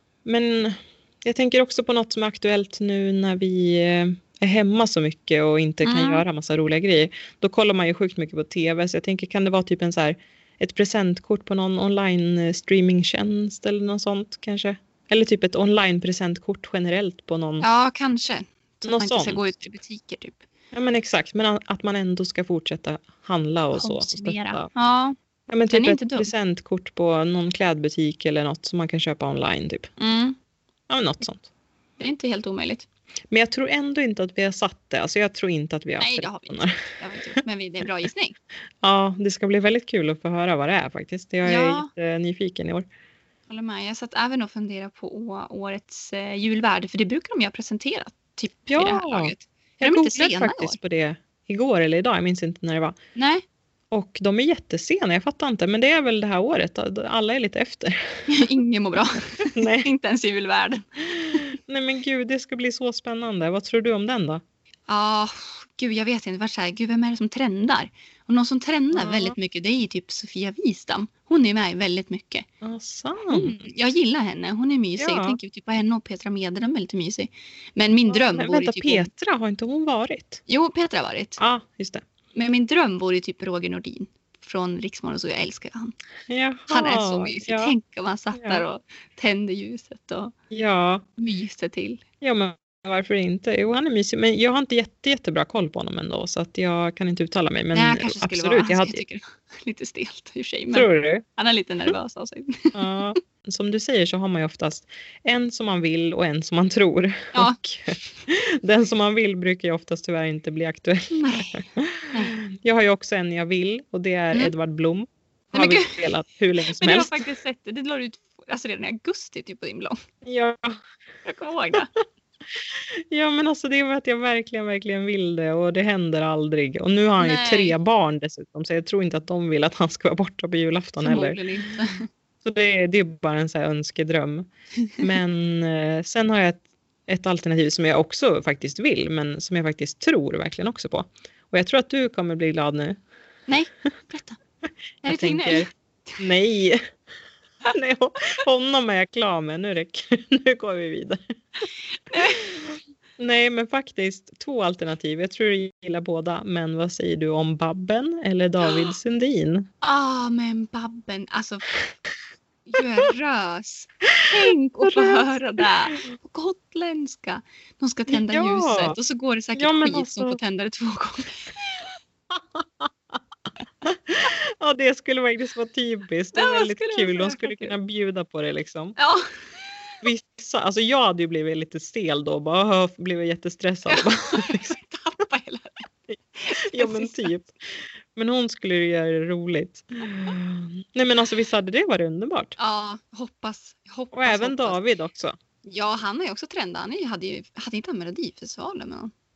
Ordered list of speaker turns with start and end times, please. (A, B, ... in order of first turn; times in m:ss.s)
0:00.2-0:17.6 A
0:05.8-0:06.2 B
0:17.6-0:20.4 B
0:18.8-0:19.4 A
0:20.7-0:24.7 A
0:23.7-0:25.2 B
0:25.5-0:29.9 A
0:25.7-0:26.3 B
0:30.0-0:30.4 B
0:30.9-0:31.5 A
0:32.0-0:32.9 B
0:33.3-0:36.8 A
0:36.0-0:38.4 B
0:38.8-0:42.9 A
0:41.4-0:41.9 B
0:43.5-0:50.8 B
0:48.7-0:53.0 A
0:53.2-0:53.4 B
0:53.9-0:58.4 A
0:58.3-1:01.5 B
0:59.5-0:59.9 A
1:01.4-1:04.4 A
1:04.9-1:12.5 B
1:08.9-1:09.4 A
1:12.6-1:13.6 A
1:13.3-1:19.1 B
1:15.0-1:15.4 A
1:18.1-1:20.4 A
1:20.5-1:21.4 B
1:21.4-1:22.0 A
1:22.4-1:26.0 B
1:26.3-1:27.8 A
1:26.7-1:30.3 B
1:28.4-1:28.6 A
1:30.5-1:31.0 A
1:31.2-1:32.0 B
1:32.2-1:39.0 A
1:37.7-1:43.1 B
1:40.7-1:41.2 A
1:42.8-1:57.2 A
1:47.3-1:47.6 B
1:51.1-1:52.4 B
1:55.5-1:56.0 B
1:56.6-2:00.0 B
2:00.2-2:00.8 A
2:01.2-2:01.9 B
2:03.1-2:11.4 A
2:07.2-2:07.8 B
2:11.0-2:12.1 B
2:12.4-2:14.5 A
2:15.0-2:23.0 A
2:23.5-2:24.4 B
2:25.0-2:26.2 B
2:25.1-2:25.7 A
2:26.2-2:26.8 A
2:27.7-2:31.2 A
2:32.1-2:32.4 B
2:33.2-2:39.7 A
2:39.8-2:41.9 B
2:42.6-2:51.9 B
2:44.8-2:45.3 A
2:48.1-2:49.0 A
2:49.6-2:50.4 A
2:52.3-2:53.2 A
2:53.8-2:59.0 A
2:56.3-2:57.8 B
2:59.0-2:59.3 B
3:00.0-3:04.8 A
3:03.9-3:05.9 B
3:06.4-3:07.4 B
3:06.7-3:07.5 A
3:08.2-3:12.6 A
3:12.6-3:14.8 B
3:14.1-3:15.4 A
3:15.6-3:19.1 B